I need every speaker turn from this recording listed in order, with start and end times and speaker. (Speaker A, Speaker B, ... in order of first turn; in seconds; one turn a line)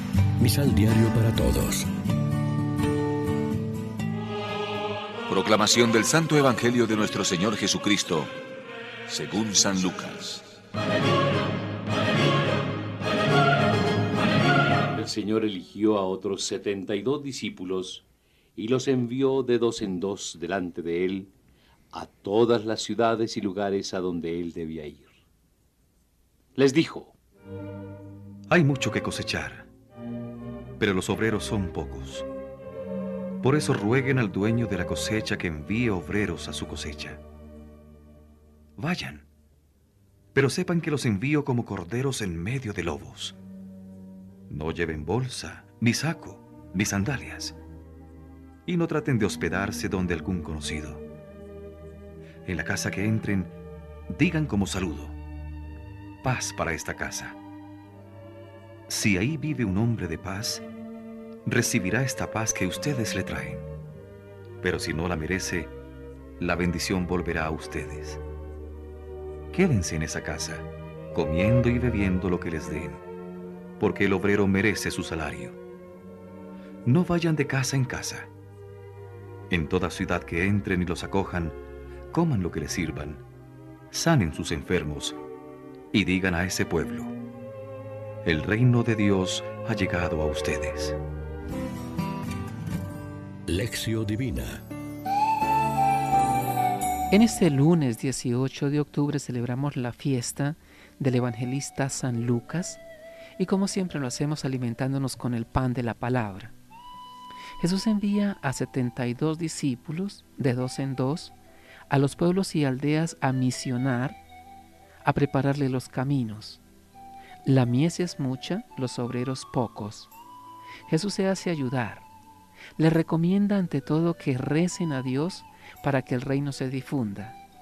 Speaker A: 0.4-1.9
Speaker B: 5.3-8.3
Speaker B: 9.1-10.4
Speaker C: 15.0-18.0
Speaker C: 18.6-21.3
Speaker C: 21.9-25.1
Speaker C: 26.6-27.1
Speaker D: 28.5-29.7
Speaker D: 30.8-32.3
Speaker D: 33.4-37.2
Speaker D: 38.8-39.2
Speaker D: 40.3-43.3
Speaker D: 44.5-47.6
Speaker D: 48.6-51.0
Speaker D: 52.4-53.5
Speaker D: 54.1-55.2
Speaker D: 56.2-57.4
Speaker D: 58.9-60.6
Speaker D: 61.5-63.7
Speaker D: 64.6-65.7
Speaker D: 66.4-68.2
Speaker D: 69.5-73.0
Speaker D: 73.8-75.6
Speaker D: 76.8-78.3
Speaker D: 79.5-81.6
Speaker D: 82.1-83.2
Speaker D: 83.9-85.2
Speaker D: 85.9-87.1
Speaker D: 88.2-91.0
Speaker A: 93.5-94.6
Speaker E: 97.1-102.8
Speaker E: 103.4-106.5
Speaker E: 107.6-111.3
Speaker E: 111.9-114.2
Speaker E: 115.0-116.6
Speaker E: 117.4-120.1
Speaker E: 120.9-122.1
Speaker E: 122.8-127.4